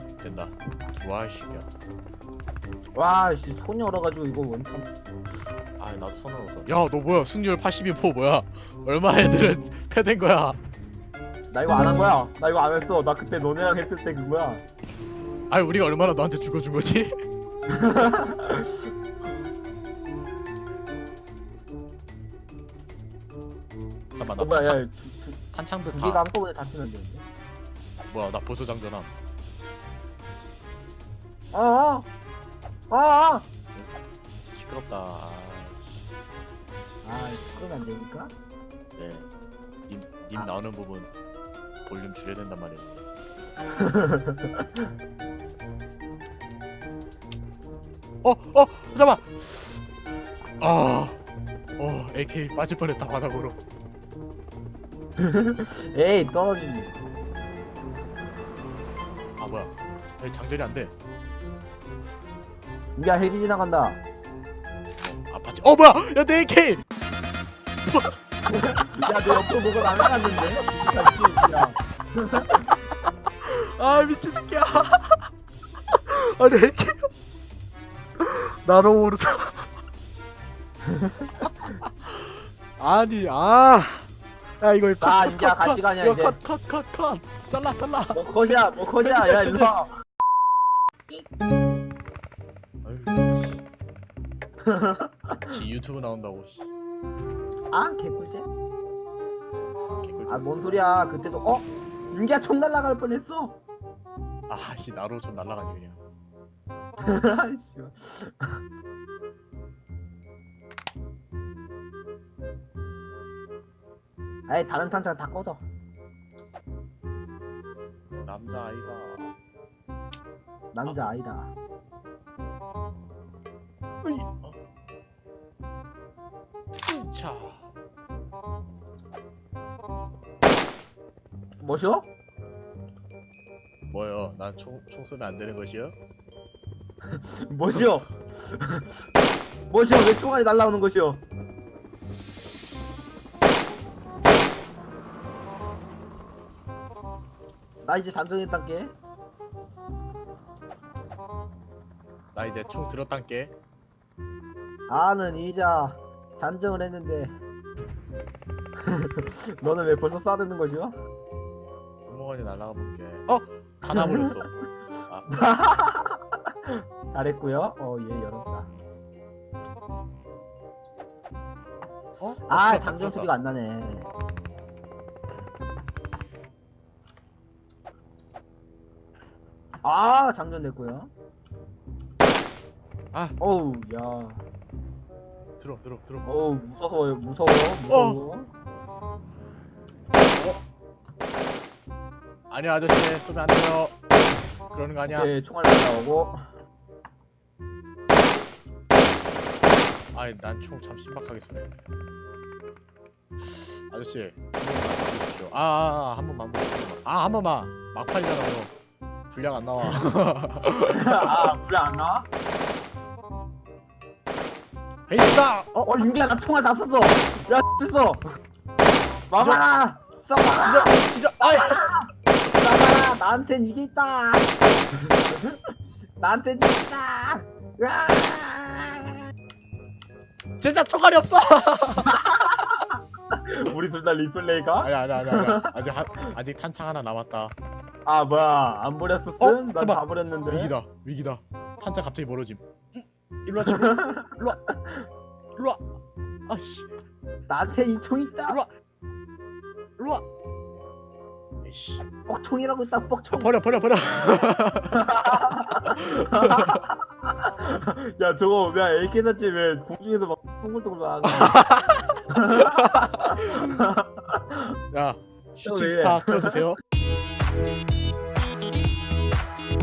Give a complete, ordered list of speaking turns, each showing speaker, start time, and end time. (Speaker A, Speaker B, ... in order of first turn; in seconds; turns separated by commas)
Speaker A: 0.2-1.7, Speaker B: 2.9-4.8, Speaker A: 5.8-10.6, Speaker B: 11.5-14.6, Speaker A: 15.5-17.1, Speaker B: 17.7-18.8, Speaker A: 24.1-24.8, Speaker B: 24.4-25.4, Speaker A: 25.5-26.2, Speaker B: 25.9-27.2, Speaker A: 28.0-29.1, Speaker B: 31.5-32.1, Speaker B: 32.9-33.5, Speaker A: 34.5-36.0, Speaker B: 37.0-38.3, Speaker A: 39.0-39.3, Speaker A: 39.9-41.1, Speaker A: 41.8-42.9, Speaker B: 43.8-44.7, Speaker A: 48.2-49.8, Speaker A: 50.6-51.2, Speaker A: 51.8-53.6, Speaker B: 55.2-57.0, Speaker A: 59.4-60.9, Speaker B: 63.0-64.0, Speaker A: 65.0-66.8, Speaker A: 67.8-68.2, Speaker B: 68.5-72.7, Speaker A: 68.8-71.5, Speaker A: 73.4-75.3, Speaker A: 75.9-77.1, Speaker A: 78.2-79.7, Speaker B: 80.8-81.3, Speaker A: 81.4-84.1, Speaker A: 84.6-89.7, Speaker B: 85.0-86.4, Speaker B: 88.1-89.9, Speaker A: 92.8-93.6, Speaker B: 94.7-95.5, Speaker A: 95.5-96.7, Speaker B: 97.7-98.5, Speaker A: 99.9-100.8, Speaker B: 100.3-103.6, Speaker A: 104.5-106.0, Speaker B: 107.0-108.6, Speaker B: 114.5-115.6, Speaker A: 118.2-119.3, Speaker B: 120.7-121.5, Speaker A: 124.0-124.6, Speaker A: 126.9-127.7, Speaker B: 131.6-132.1, Speaker A: 133.9-135.9, Speaker B: 137.1-138.9, Speaker B: 139.7-141.2, Speaker B: 147.8-148.9, Speaker A: 152.3-153.5, Speaker B: 154.9-157.3, Speaker B: 158.8-160.9, Speaker A: 162.0-164.5, Speaker B: 163.8-164.3, Speaker A: 165.1-165.4, Speaker B: 165.3-168.7, Speaker A: 172.2-173.3, Speaker B: 172.5-174.1, Speaker B: 179.8-181.1, Speaker B: 183.4-184.4, Speaker A: 185.6-186.3, Speaker B: 186.2-188.5, Speaker A: 187.9-188.2, Speaker A: 190.2-190.6, Speaker A: 192.5-195.3, Speaker B: 195.1-196.5, Speaker A: 200.1-201.7, Speaker A: 203.4-208.7, Speaker A: 209.3-211.5, Speaker B: 210.7-212.3, Speaker A: 215.1-215.9, Speaker B: 215.8-218.2, Speaker B: 219.3-224.5, Speaker A: 219.3-219.6, Speaker A: 220.5-221.9, Speaker B: 225.1-225.6, Speaker B: 226.2-229.2, Speaker A: 230.6-232.2, Speaker B: 232.1-235.7, Speaker A: 234.8-237.5, Speaker B: 238.0-240.7, Speaker A: 239.4-244.6, Speaker B: 243.6-244.9, Speaker A: 245.6-245.8, Speaker A: 246.5-246.9, Speaker B: 247.5-248.6, Speaker A: 250.0-250.2, Speaker A: 251.6-252.0, Speaker B: 252.2-253.5, Speaker A: 253.3-256.8, Speaker B: 254.9-261.6, Speaker A: 261.3-263.8, Speaker B: 262.3-264.8, Speaker A: 264.9-266.8, Speaker B: 265.6-266.6